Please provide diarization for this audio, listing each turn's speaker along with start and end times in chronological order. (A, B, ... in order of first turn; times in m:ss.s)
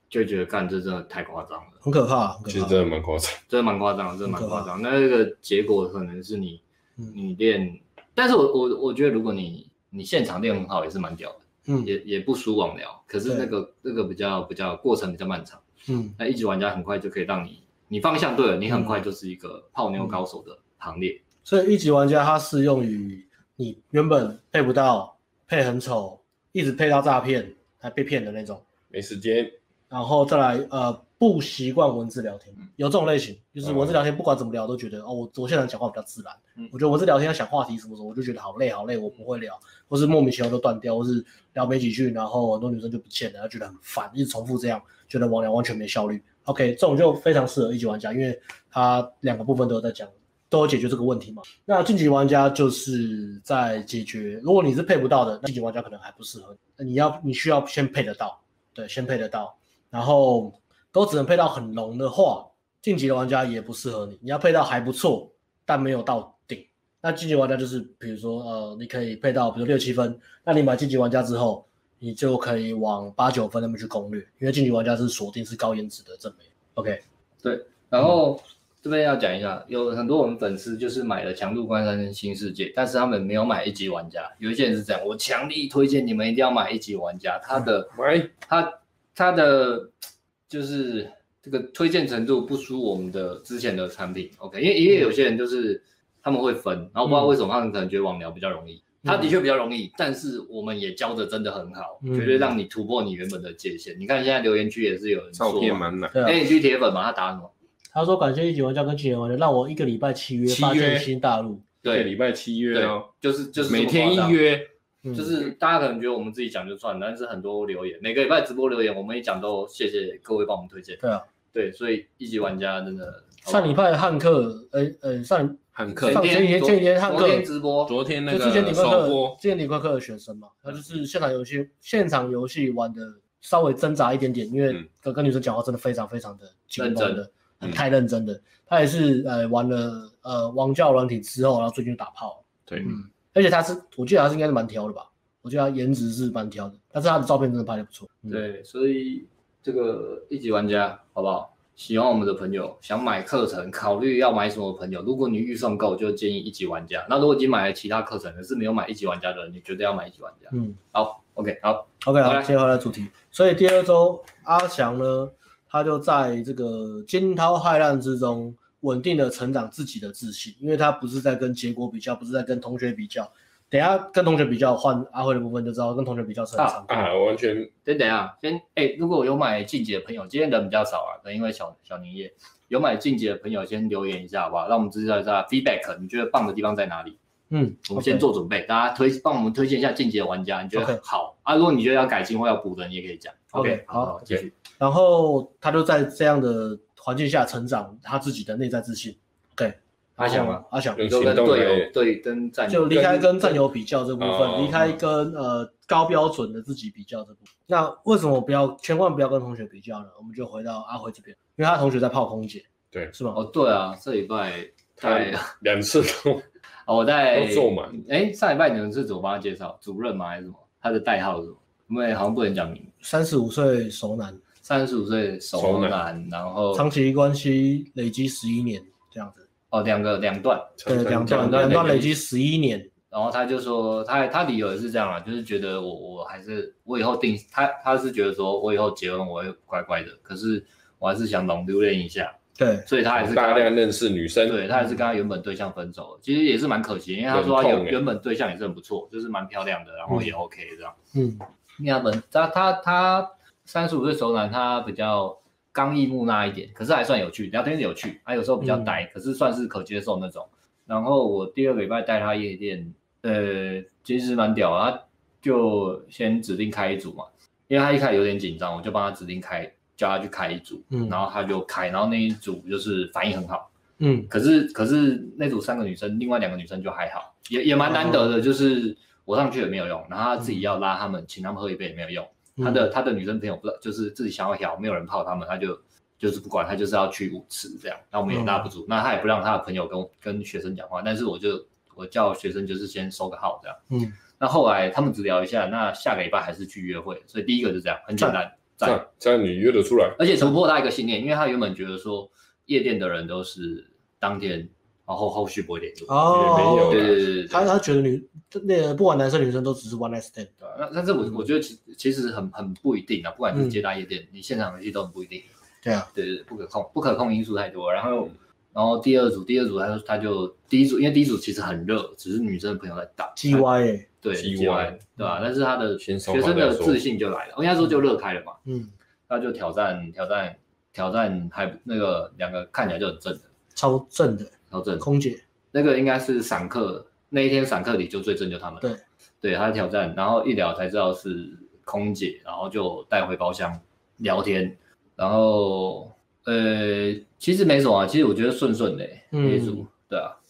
0:00.1-0:01.8 A
0:01.8-0:02.8 B
0:02.5-0:03.4 C
0:03.5-0:15.6 A
0:04.3-0:04.7 B
0:15.9-0:16.2 B
0:16.2-0:21.2 A
0:18.7-0:19.0 B
0:21.4-0:28.6 B
0:28.9-0:29.6 C
0:29.9-1:17.0 B
0:33.6-0:34.0 C
1:17.4-1:27.9 A
1:27.9-1:28.3 C
1:28.4-1:29.9 A
1:30.5-1:47.5 A
1:39.0-1:39.4 B
1:42.0-1:42.5 B
1:45.4-1:46.2 C
1:46.1-1:46.4 B
1:47.9-1:51.6 B
1:50.5-1:51.1 C
1:51.8-1:52.1 A
1:51.9-1:53.1 C
1:52.7-1:54.4 A
1:53.6-1:54.7 C
1:55.0-1:55.3 B
1:55.1-2:01.0 A
2:01.0-2:01.3 B
2:01.5-2:03.7 A
2:03.5-2:07.5 B
2:05.8-2:06.3 C
2:06.0-2:07.9 A
2:07.9-2:09.4 C
2:08.3-2:28.4 B
2:16.8-2:17.2 A
2:22.7-2:22.9 C
2:28.3-2:42.5 A
2:40.5-2:40.8 B
2:42.0-2:57.1 B
2:56.9-2:57.7 C
2:57.8-3:07.2 A
3:07.5-3:08.3 B
3:07.9-3:14.5 A
3:10.7-3:11.0 B
3:13.6-3:14.2 B
3:14.8-3:21.0 B
3:20.2-3:23.6 A
3:21.0-3:21.9 C
3:22.7-3:33.4 B
3:24.2-3:25.0 C
3:33.3-3:35.5 A
3:35.0-3:36.4 C
3:36.9-3:42.9 A
3:37.3-3:38.0 C
3:43.0-3:44.4 B
3:44.6-3:46.9 A
3:45.6-3:46.0 C
3:46.7-3:49.4 B
3:49.7-3:52.2 A
3:50.8-3:52.1 C
3:50.9-3:52.9 B
3:53.1-4:03.7 A
4:02.6-4:02.9 B
4:03.1-4:04.6 C
4:04.5-4:11.0 A
4:07.3-4:08.0 C
4:11.1-4:11.4 B
4:11.8-4:33.7 A
4:18.6-4:19.0 B
4:30.9-4:31.2 B
4:34.0-4:34.3 B
4:34.3-4:53.8 A
4:37.8-4:38.3 B
4:42.6-4:42.9 B
4:48.3-4:48.7 B
4:53.9-4:54.2 B
4:54.4-4:59.0 A
4:58.8-5:00.2 C
5:00.2-5:07.7 A
5:06.1-5:10.5 B
5:06.3-5:07.2 C
5:10.6-5:15.5 A
5:13.5-5:13.8 B
5:15.8-5:16.1 B
5:16.1-5:23.7 A
5:23.4-5:24.1 B
5:24.2-5:28.6 A
5:24.4-5:25.0 C
5:26.0-5:27.0 C
5:28.7-5:28.9 B
5:29.3-5:33.5 A
5:33.8-5:35.4 B
5:34.7-5:35.0 A
5:35.7-5:38.9 A
5:39.4-5:50.4 A
5:49.3-5:49.8 B